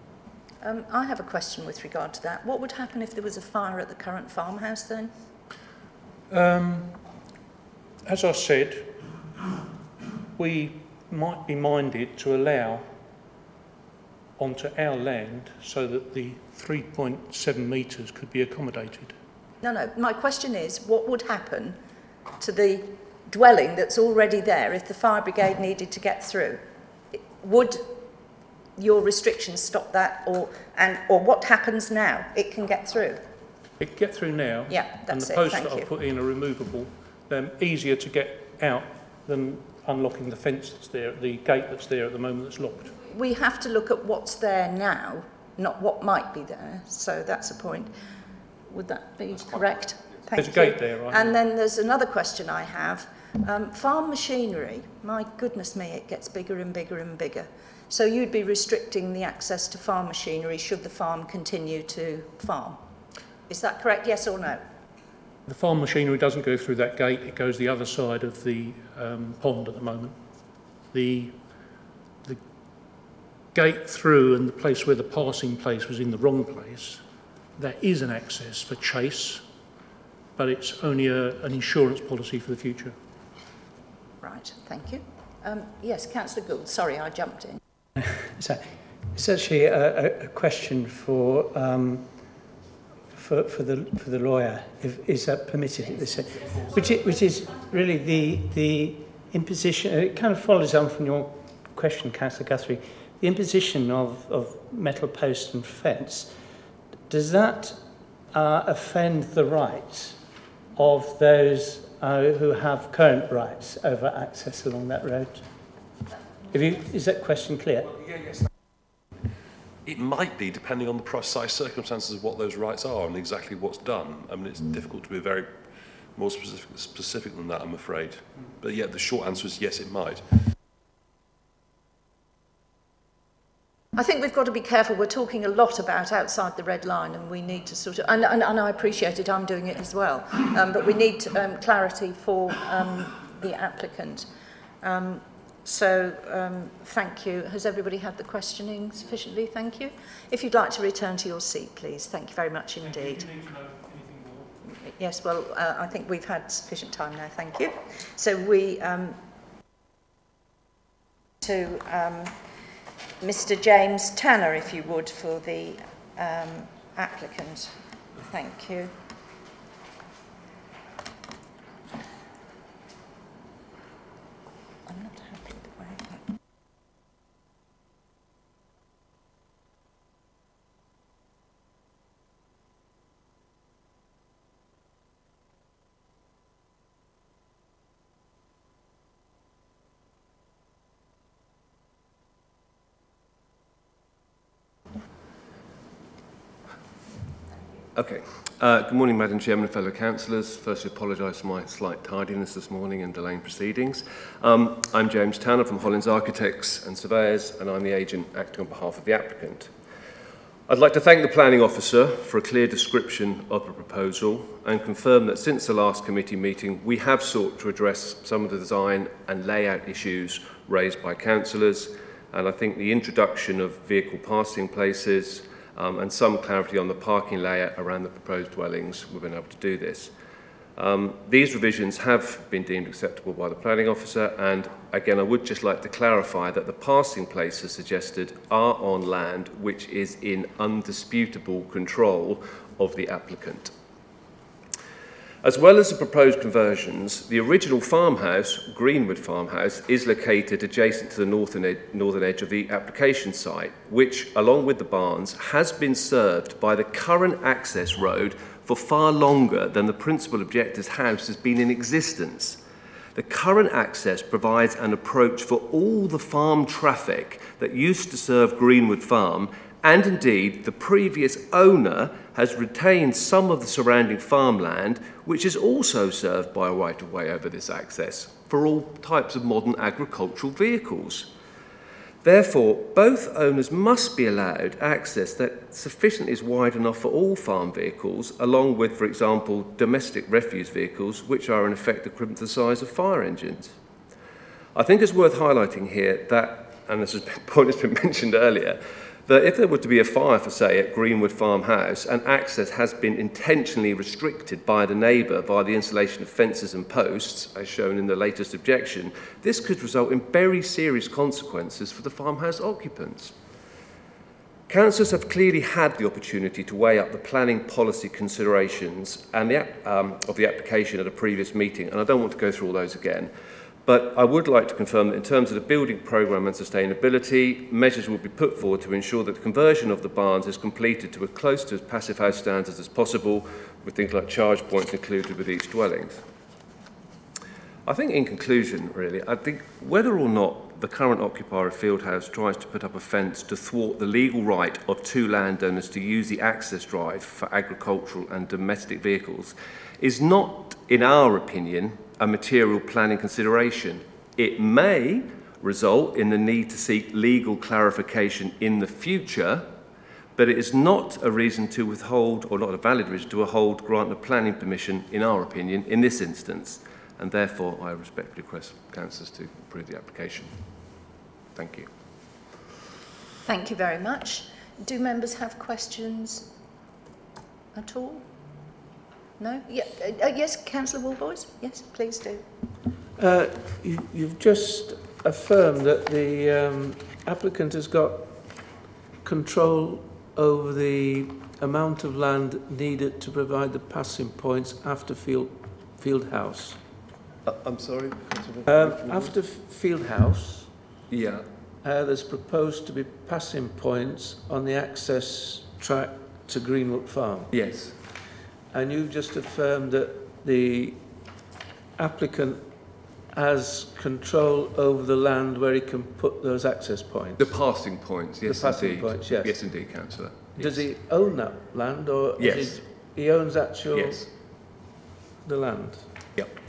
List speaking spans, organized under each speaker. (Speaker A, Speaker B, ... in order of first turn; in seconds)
Speaker A: 0.6-5.1, 19.6-21.8, 22.4-28.0, 28.8-33.2, 34.7-35.9, 42.9-47.9, 48.7-62.8, 63.5-64.6, 84.2-87.6, 133.9-144.3, 144.8-153.3, 154.7-159.2, 161.4-162.4, 163.2-168.9, 174.9-176.2, 373.4-376.5, 377.7-378.3, 379.4-382.4
Speaker B: 6.3-7.0, 8.1-9.0, 10.4-12.9, 14.4-19.1, 33.8-42.9, 50.3-51.4, 65.5-70.2, 70.9-71.4, 73.5-77.0, 77.6-79.4, 80.4-83.0, 152.8-154.5
Speaker C: 88.2-88.6, 89.1-92.3, 93.1-106.3, 107.1-107.8, 108.3-110.2, 110.8-115.4, 116.5-117.9
Speaker D: 119.8-130.3, 397.5-399.3, 418.6-420.8, 422.4-422.8
Speaker E: 197.9-209.7, 210.7-230.1, 230.8-243.7, 245.4-262.6, 263.1-281.3, 282.2-293.8, 294.7-313.4, 314.7-323.3, 323.9-336.2, 337.9-359.7, 360.4-370.9, 371.5-371.9, 417.4-420.6
Speaker F: 383.1-396.8, 398.6-401.0, 401.8-407.6, 408.7-411.3, 411.9-417.4, 418.4-419.6, 420.6-424.3, 425.4-426.3